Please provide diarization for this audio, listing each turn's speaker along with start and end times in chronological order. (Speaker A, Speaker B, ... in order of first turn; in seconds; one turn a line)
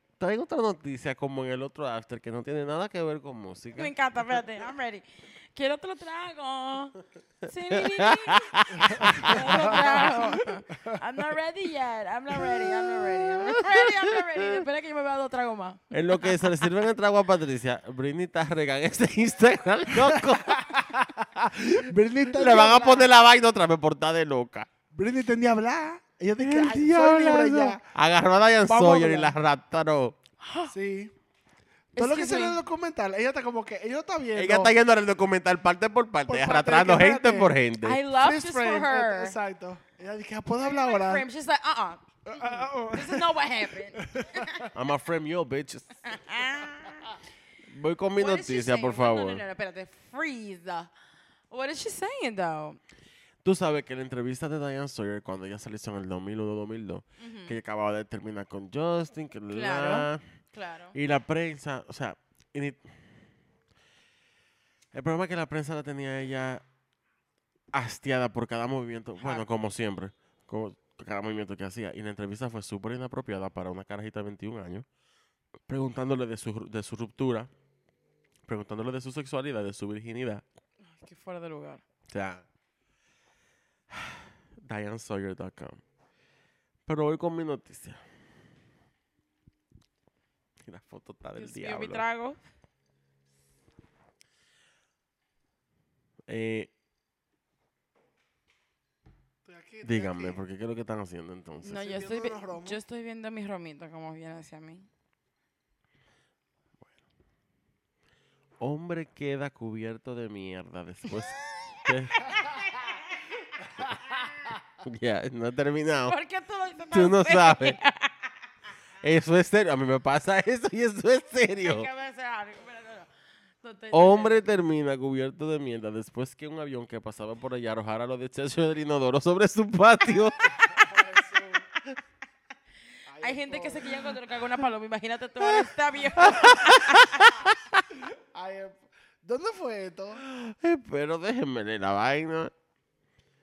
Speaker A: 0.2-4.4
Speaker B: 3.8-16.6
Speaker A: 7.7-10.0
Speaker C: 8.8-11.0
Speaker A: 12.6-14.6
Speaker A: 15.9-20.8
Speaker C: 20.0-23.0
Speaker A: 22.3-24.7
Speaker B: 22.4-23.1
Speaker C: 24.9-27.8
Speaker A: 26.4-30.2
Speaker C: 28.6-29.4
Speaker B: 30.4-30.7
Speaker C: 30.7-31.1
Speaker B: 31.9-32.6
Speaker C: 31.9-34.7
Speaker A: 34.3-38.0
Speaker C: 36.2-37.5
Speaker B: 37.8-39.4
Speaker C: 38.1-41.2
Speaker B: 40.6-44.7
Speaker C: 42.2-43.4
Speaker C: 43.9-44.7
Speaker A: 44.7-46.2
Speaker B: 46.0-47.1
Speaker A: 47.7-49.4
Speaker B: 48.2-50.9
Speaker B: 51.5-52.8
Speaker A: 53.4-60.2
Speaker B: 57.2-57.6
Speaker B: 59.5-61.0
Speaker A: 60.9-62.9
Speaker A: 64.9-66.6
Speaker A: 67.7-74.8
Speaker B: 69.2-69.5
Speaker A: 75.7-77.5
Speaker A: 78.5-80.4
Speaker B: 80.8-81.8
Speaker A: 82.1-82.4
Speaker A: 83.9-85.8
Speaker A: 86.8-88.0
Speaker A: 90.6-92.0
Speaker B: 91.4-92.4
Speaker A: 96.3-96.7
Speaker C: 99.4-100.4
Speaker A: 99.8-101.8
Speaker B: 101.6-104.9
Speaker C: 101.7-102.8
Speaker A: 108.6-112.4
Speaker B: 111.4-114.5
Speaker A: 114.8-116.2
Speaker B: 116.0-118.3
Speaker A: 116.9-117.8
Speaker A: 119.0-121.9
Speaker B: 121.5-123.1
Speaker B: 123.6-124.4
Speaker A: 123.9-130.8
Speaker C: 130.6-131.7
Speaker C: 133.1-134.0
Speaker B: 133.2-137.4
Speaker A: 135.4-137.8
Speaker C: 137.9-140.2
Speaker A: 140.2-142.5